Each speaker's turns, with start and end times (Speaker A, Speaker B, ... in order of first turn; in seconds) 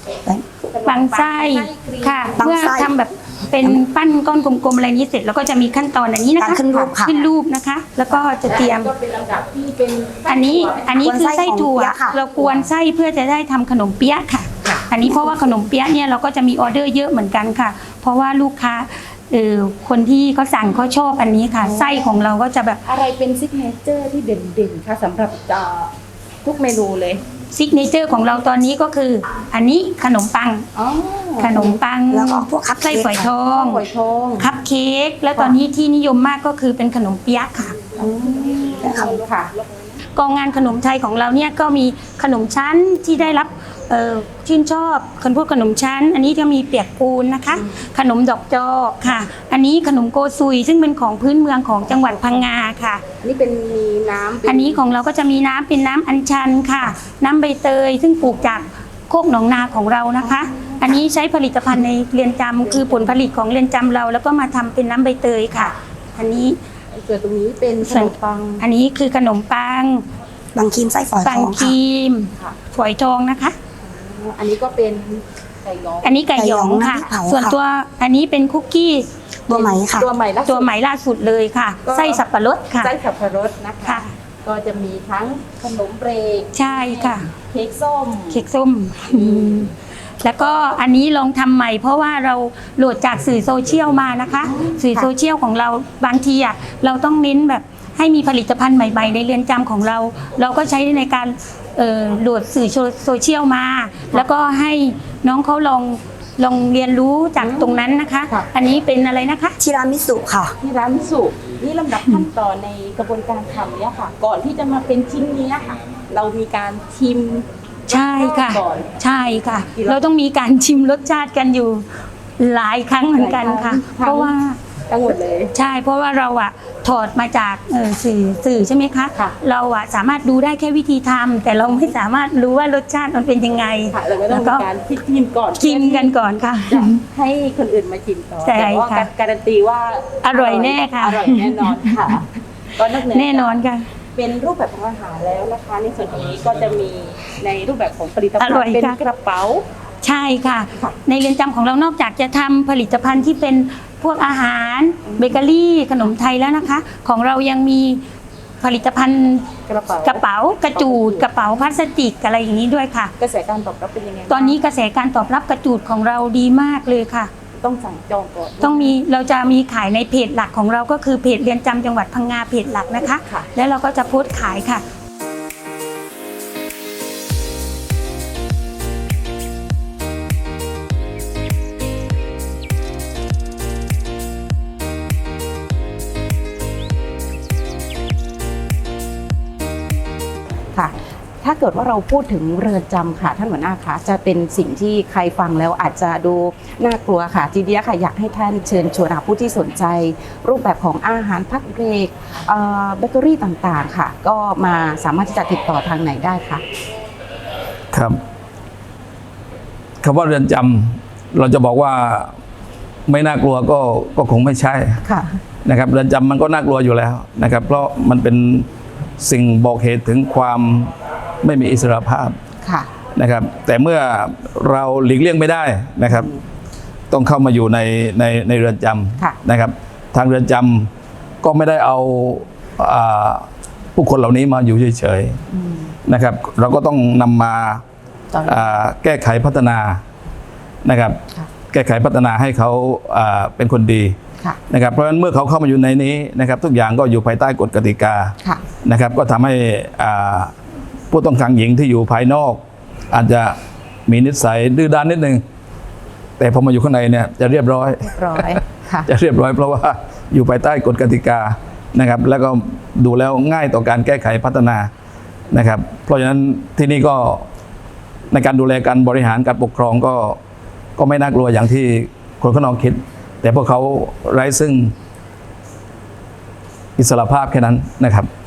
Speaker A: 0.7-2.5, 8.1-11.0, 12.3-12.7, 14.6-14.9, 21.6-22.1, 22.8-27.2, 30.7-31.8, 33.4-34.5, 37.9-39.9, 47.5-47.8, 51.9-52.5, 53.2-54.8, 60.3-60.8, 62.6-63.2, 66.9-68.6, 73.8-76.2, 79.5-80.7, 81.8-82.2, 82.8-88.5, 89.1-89.7, 94.4-95.1, 107.4-108.5, 110.6-119.0, 119.6-120.0, 123.1-124.3, 124.9-125.5, 131.6-131.9, 133.9-143.6, 144.1-149.6, 155.1-155.4, 159.7-161.3, 163.2-164.6, 167.5-169.0, 173.2-173.5, 190.7-206.6, 215.0-215.3, 222.6-222.9, 226.1-226.4, 235.5-235.9, 238.3-238.7, 258.0-259.1
Speaker B: 0.8-8.9, 10.2-22.8, 27.5-30.7, 31.4-33.8, 34.4-37.8, 40.1-53.0, 54.4-66.6, 67.8-70.0, 71.2-73.5, 76.0-79.1, 80.4-82.9, 83.8-84.1, 86.5-87.3, 88.3-109.6, 117.9-121.9, 122.4-124.6, 125.5-134.7, 135.5-137.0, 138.4-139.1, 140.2-142.0, 143.0-143.9, 148.4-149.0, 150.0-158.0, 158.6-159.5, 160.0-163.1, 164.3-167.3, 168.6-174.8
Speaker C: 2.4-2.9, 6.4-7.2, 11.0-12.2, 32.1-33.3, 38.7-39.2, 70.5-71.8, 76.3-77.5, 79.5-80.1, 109.6-110.5
Speaker D: 207.9-208.2, 210.0-212.4, 213.1-215.0, 215.6-218.7, 219.2-222.4, 223.2-226.3, 227.1-230.9, 231.4-235.4, 236.1-237.8, 238.4-240.0, 240.8-241.2, 241.7-244.2, 244.7-250.5, 251.1-255.4, 256.4-258.5, 259.1-264.9, 265.5-267.5, 268.3-270.4, 271.0-274.9, 277.0-278.3